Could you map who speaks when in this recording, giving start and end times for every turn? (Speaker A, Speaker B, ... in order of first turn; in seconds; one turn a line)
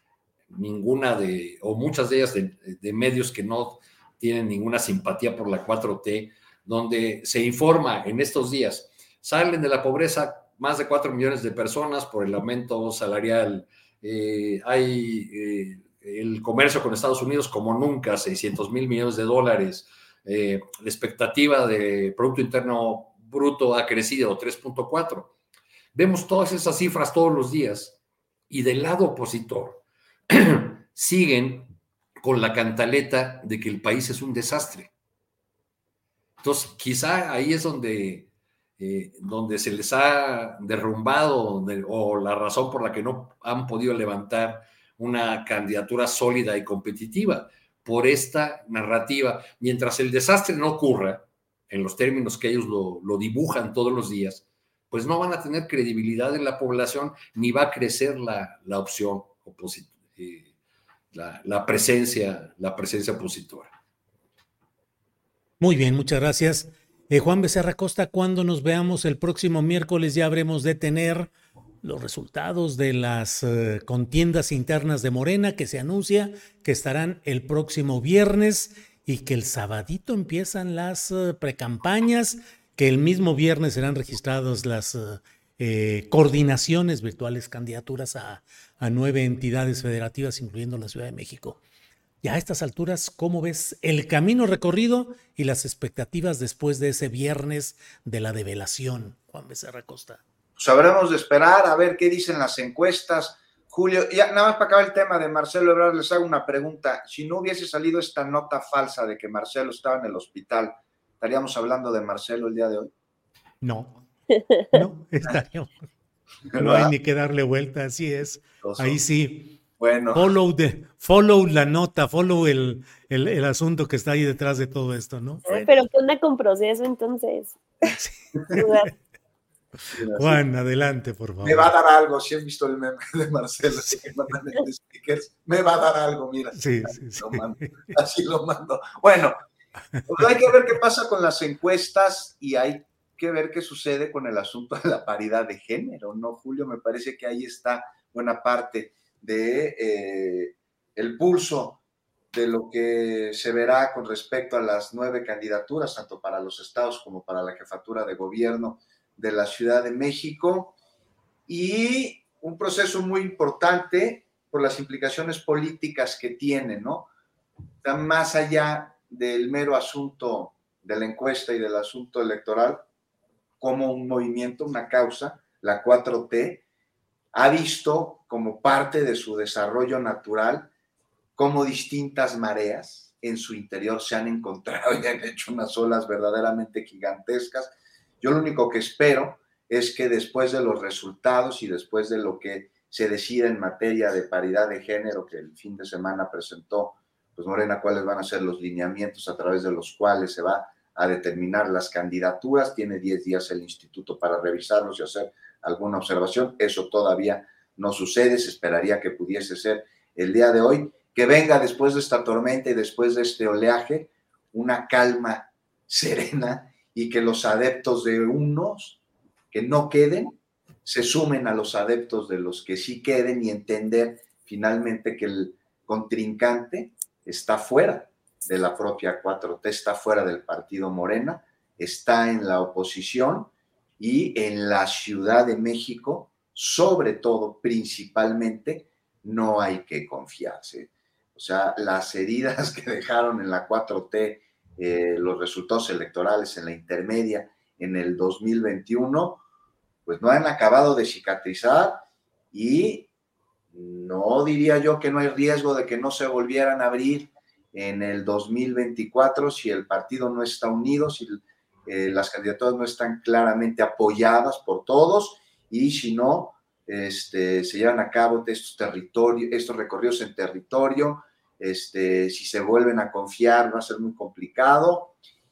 Speaker A: 0.5-25.3
Speaker A: 25.9-28.0
Speaker A: 28.5-34.9
Speaker A: 36.4-60.5
Speaker A: 61.1-63.7
Speaker B: 65.6-71.3
Speaker B: 71.8-91.6
Speaker B: 92.2-100.2
Speaker C: 100.6-112.9
Speaker B: 113.6-114.0
Speaker B: 114.6-115.9
Speaker C: 116.5-116.9
Speaker B: 116.5-119.6
Speaker C: 118.6-119.0
Speaker C: 119.8-120.4
Speaker B: 120.1-125.7
Speaker D: 125.5-127.6
Speaker B: 128.0-128.8
Speaker D: 128.6-128.9
Speaker C: 129.9-130.4
Speaker B: 130.1-131.7
Speaker C: 131.4-139.4
Speaker B: 136.6-137.9
Speaker C: 140.1-151.8
Speaker C: 152.3-160.7
Speaker C: 161.5-167.1
Speaker C: 167.8-172.8
Speaker C: 173.6-176.6
Speaker C: 177.3-180.7
Speaker C: 181.4-219.0
Speaker C: 219.5-249.4
Speaker C: 250.1-253.1
Speaker C: 253.7-275.1